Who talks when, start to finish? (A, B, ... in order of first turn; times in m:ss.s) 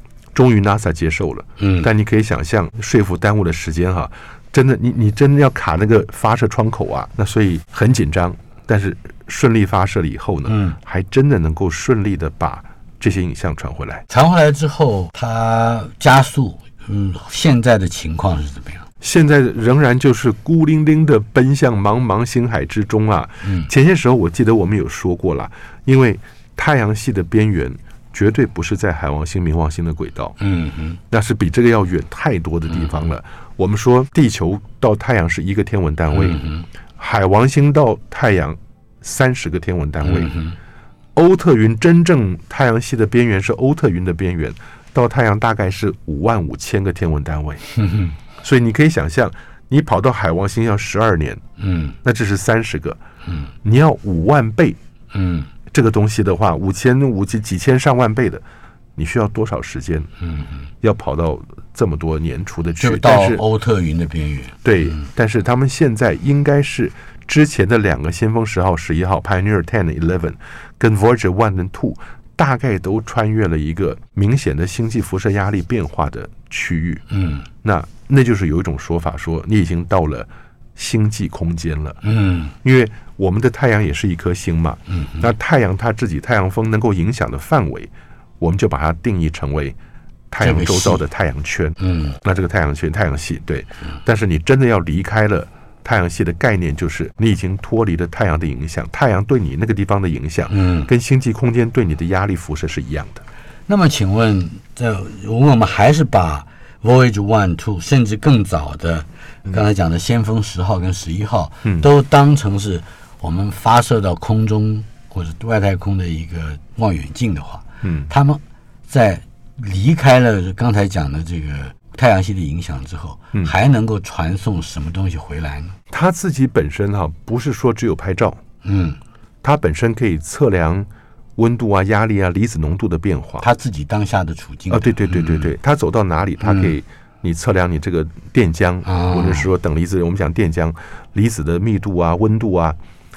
0:00.3-0:14.0 A
0:01.6-0:01.9 B
0:10.5-0:10.8 B
0:14.1-0:18.8 B
0:19.0-0:30.4 A
0:23.4-0:23.7 B
0:30.4-0:31.0 B
0:31.1-0:36.4 A
0:36.1-0:36.6 B
0:37.0-0:40.3 A
0:40.0-0:40.6 B
0:41.1-0:47.6 A
0:47.7-0:48.1 B
0:48.4-0:51.4 A
0:51.6-0:52.0 B
0:52.0-0:53.0 A
0:53.6-0:54.8 A
0:55.1-0:55.5 B
0:55.7-0:58.4 A
0:59.0-1:00.1 A
1:00.2-1:00.7 B
1:00.8-1:03.4 A
1:02.8-1:04.6 B
1:04.6-1:17.0 A
1:17.1-1:17.4 B
1:17.6-1:22.0 A
1:22.0-1:22.5 B
1:22.6-1:29.8 A
1:24.9-1:25.3 B
1:30.3-1:43.2 A
1:30.4-1:31.0 B
1:31.8-1:32.1 B
1:40.5-1:40.9 B
1:43.7-2:05.8 B
1:57.8-1:58.1 A
2:05.9-2:08.4 A
2:08.6-2:09.0 B
2:09.4-2:13.5 A
2:13.4-2:15.5 B
2:14.7-2:22.8 A
2:16.4-2:16.7 B
2:18.8-2:19.5 B